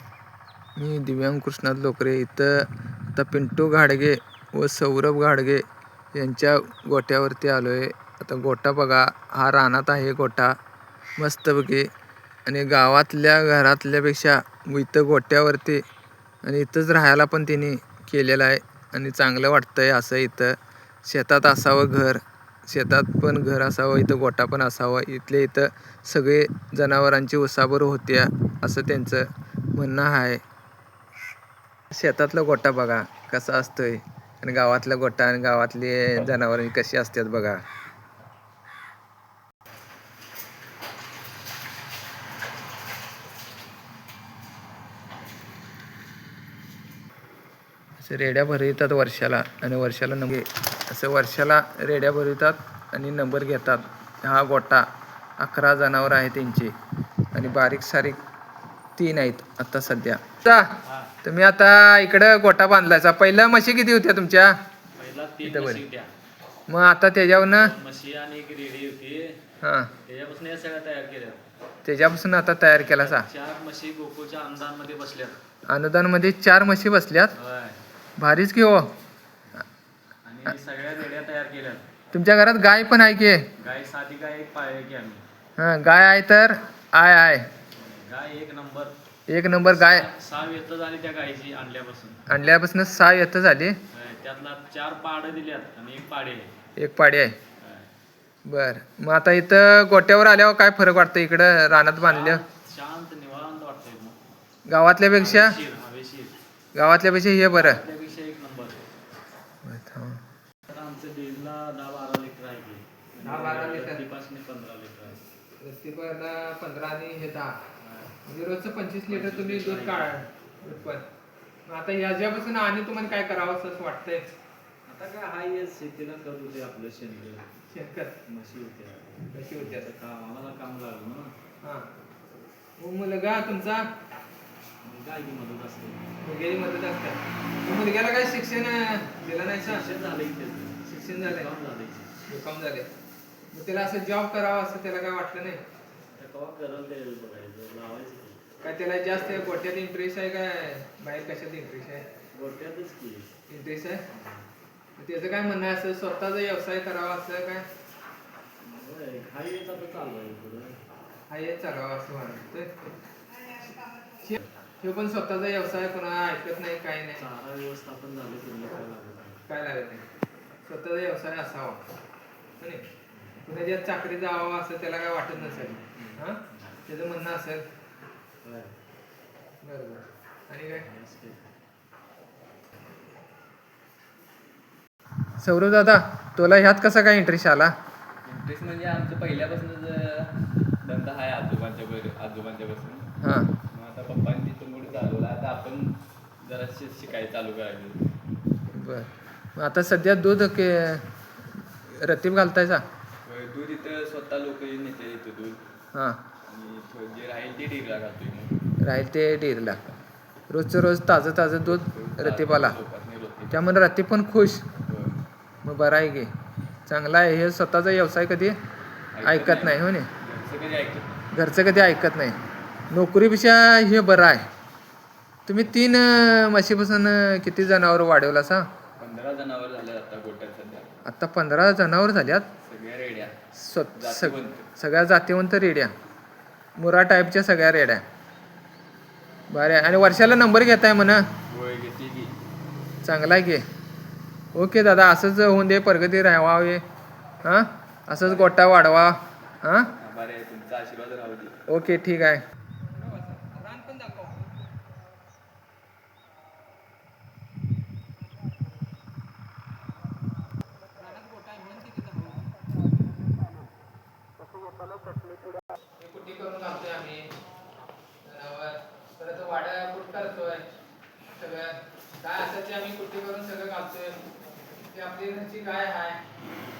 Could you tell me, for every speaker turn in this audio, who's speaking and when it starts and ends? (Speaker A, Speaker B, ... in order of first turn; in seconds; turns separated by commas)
Speaker A: 0.8-10.6, Speaker A: 11.2-11.9, Speaker A: 12.5-15.8, Speaker A: 16.4-30.4, Speaker A: 31.9-37.6, Speaker A: 48.0-54.9, Speaker A: 55.4-56.7, Speaker A: 57.3-58.2, Speaker A: 59.0-64.6, Speaker B: 60.8-61.1, Speaker B: 65.0-66.1, Speaker A: 65.4-65.8, Speaker A: 66.7-67.7, Speaker B: 67.4-69.4, Speaker A: 69.6-69.9, Speaker B: 70.0-71.4, Speaker A: 71.8-73.3, Speaker B: 72.8-75.4, Speaker A: 75.7-77.3, Speaker B: 77.3-77.8, Speaker A: 78.2-78.9, Speaker B: 80.2-81.8, Speaker A: 82.1-83.5, Speaker B: 83.6-85.2, Speaker A: 85.6-87.5, Speaker B: 87.7-89.0, Speaker A: 89.3-90.1, Speaker B: 89.7-92.2, Speaker A: 92.3-93.8, Speaker B: 93.9-96.5, Speaker A: 96.8-97.4, Speaker B: 97.6-97.9, Speaker A: 98.5-102.4, Speaker B: 102.0-104.2, Speaker A: 104.7-105.6, Speaker B: 105.1-106.4, Speaker A: 106.8-107.8, Speaker B: 107.5-108.8, Speaker A: 109.6-110.2, Speaker B: 110.7-115.2, Speaker A: 113.2-114.0, Speaker A: 115.6-117.6, Speaker B: 117.8-118.2, Speaker A: 118.3-121.0, Speaker B: 119.1-120.2, Speaker A: 121.7-124.2, Speaker B: 124.9-127.5, Speaker A: 127.7-128.2, Speaker B: 128.3-131.3, Speaker A: 129.3-129.9, Speaker A: 131.6-131.9, Speaker A: 132.8-133.9, Speaker B: 134.8-136.2, Speaker A: 136.2-139.9, Speaker B: 139.6-142.1, Speaker A: 140.9-141.5, Speaker A: 142.3-142.9, Speaker A: 143.5-145.6, Speaker B: 146.1-148.4, Speaker A: 148.6-152.1, Speaker B: 152.3-153.3, Speaker A: 153.5-154.1, Speaker B: 154.1-154.5, Speaker A: 155.0-157.7, Speaker B: 158.6-160.8, Speaker A: 161.3-162.7, Speaker A: 164.0-167.3, Speaker B: 167.2-169.4, Speaker A: 169.5-170.1, Speaker A: 170.7-171.8, Speaker A: 172.6-172.9, Speaker B: 173.1-173.4, Speaker A: 173.4-177.7, Speaker B: 175.3-176.8, Speaker B: 178.4-178.8, Speaker A: 179.6-180.9, Speaker B: 180.8-181.5, Speaker A: 185.4-187.7, Speaker C: 188.2-193.1, Speaker A: 193.2-193.5, Speaker C: 193.7-198.0, Speaker A: 198.7-201.1, Speaker A: 201.7-202.8, Speaker C: 203.2-205.7, Speaker A: 205.9-206.2, Speaker C: 206.4-208.6, Speaker A: 208.8-209.8, Speaker A: 210.5-212.8, Speaker C: 211.7-213.8, Speaker A: 213.5-214.8, Speaker C: 214.8-215.2, Speaker A: 215.6-216.3, Speaker A: 216.9-218.6, Speaker C: 219.1-221.2, Speaker A: 219.2-220.1, Speaker A: 221.3-222.4, Speaker A: 222.9-224.4, Speaker A: 225.5-228.7, Speaker C: 229.0-230.9, Speaker A: 231.1-232.5, Speaker C: 232.6-233.4, Speaker A: 233.5-235.9, Speaker C: 233.9-234.7, Speaker A: 236.8-238.1, Speaker A: 239.5-241.3, Speaker C: 241.5-242.4, Speaker A: 243.0-243.6, Speaker A: 244.5-246.8, Speaker A: 247.4-249.9, Speaker C: 250.0-251.6, Speaker A: 251.7-252.4, Speaker A: 252.9-254.5, Speaker A: 261.0-262.5, Speaker A: 266.0-267.3, Speaker A: 268.2-270.7, Speaker A: 271.3-274.3, Speaker A: 274.8-276.2